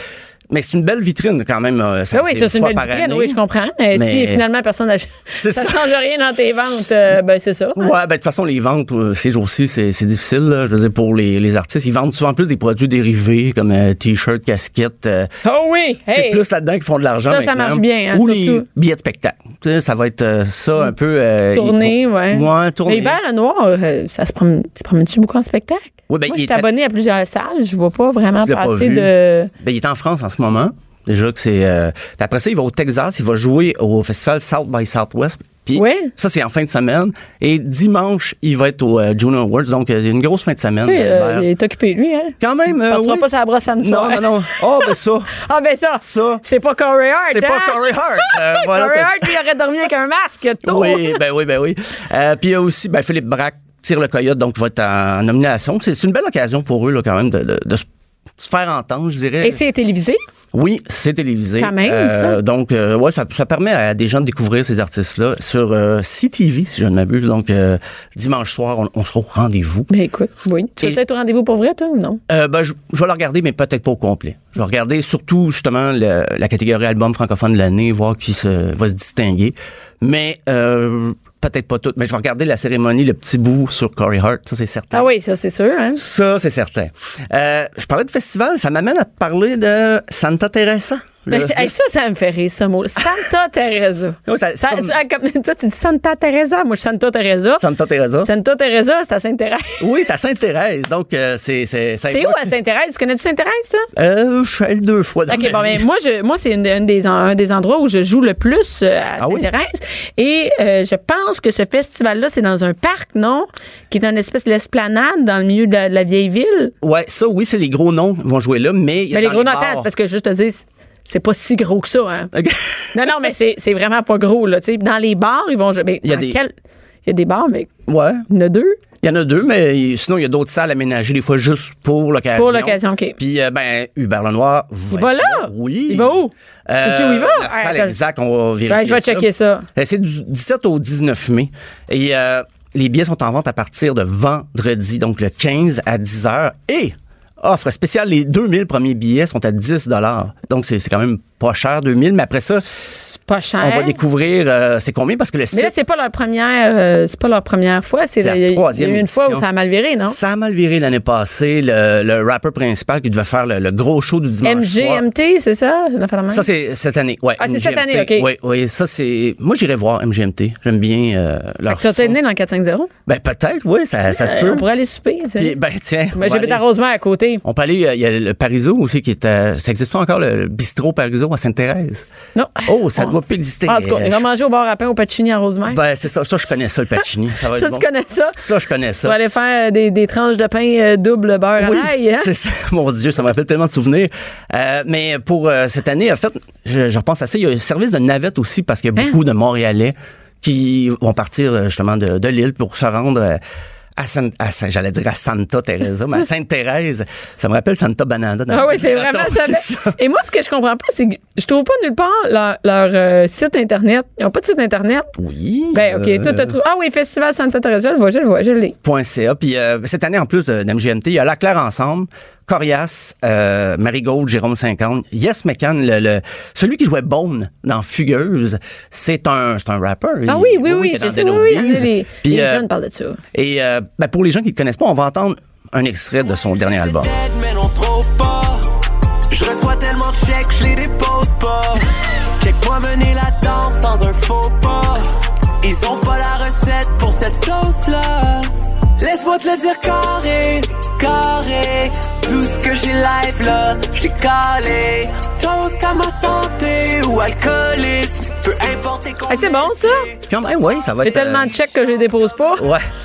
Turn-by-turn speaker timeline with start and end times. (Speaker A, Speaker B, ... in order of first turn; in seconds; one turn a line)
Speaker A: 0.5-3.4
Speaker B: 2.1-7.9
Speaker A: 3.9-4.4
Speaker A: 5.4-5.8
Speaker A: 7.8-15.3
Speaker B: 15.4-16.4
Speaker A: 16.1-23.2
Speaker B: 17.3-18.6
Speaker B: 21.5-29.5
Speaker A: 26.1-26.6
Speaker A: 28.4-41.5
Speaker B: 35.7-36.1
Speaker B: 40.8-51.2
Speaker A: 42.4-43.3
Speaker A: 43.8-45.4
Speaker A: 46.0-46.4
Speaker A: 47.2-49.4
Speaker A: 50.6-57.8
Speaker A: 58.4-59.6
Speaker B: 59.4-60.2
Speaker A: 60.5-69.9
Speaker B: 61.6-62.4
Speaker B: 69.9-72.2
Speaker A: 72.3-85.1
Speaker B: 84.9-86.0
Speaker A: 86.0-91.7
Speaker B: 91.3-97.6
Speaker A: 94.2-94.9
Speaker A: 97.6-98.3
Speaker B: 98.2-99.8
Speaker A: 99.8-102.5
Speaker B: 102.1-103.9
Speaker A: 104.0-105.8
Speaker B: 105.3-116.7
Speaker A: 109.2-109.5
Speaker A: 116.8-119.9
Speaker B: 119.1-122.3
Speaker A: 122.3-123.0
Speaker B: 122.9-126.5
Speaker A: 126.0-126.4
Speaker B: 127.0-127.8
Speaker A: 127.9-128.2
Speaker B: 128.3-128.8
Speaker A: 129.0-136.1
Speaker B: 132.3-133.2
Speaker B: 134.9-137.9
Speaker A: 136.7-152.7
Speaker B: 138.7-139.7
Speaker B: 153.1-154.0
Speaker A: 153.6-155.7
Speaker B: 155.5-160.2
Speaker A: 158.2-159.4
Speaker A: 160.1-165.0
Speaker B: 164.4-166.4
Speaker A: 166.3-172.2
Speaker B: 167.4-168.2
Speaker B: 171.7-172.9
Speaker A: 173.1-174.6
Speaker B: 174.1-175.5
Speaker A: 175.3-176.6
Speaker B: 176.1-177.4
Speaker A: 177.4-182.1
Speaker B: 182.3-183.1
Speaker A: 182.7-184.2
Speaker B: 183.7-185.8
Speaker A: 185.7-189.2
Speaker B: 187.5-188.4
Speaker B: 189.0-192.3
Speaker A: 191.6-203.4
Speaker A: 204.0-209.9
Speaker B: 208.5-215.1
Speaker A: 215.2-216.5
Speaker B: 215.7-218.8
Speaker A: 218.8-232.7
Speaker B: 230.3-233.2
Speaker A: 233.3-237.1
Speaker C: 237.0-238.7
Speaker C: 239.3-241.9
Speaker C: 242.4-260.1
Speaker B: 259.3-260.1
Speaker A: 260.3-261.5
Speaker B: 261.0-262.6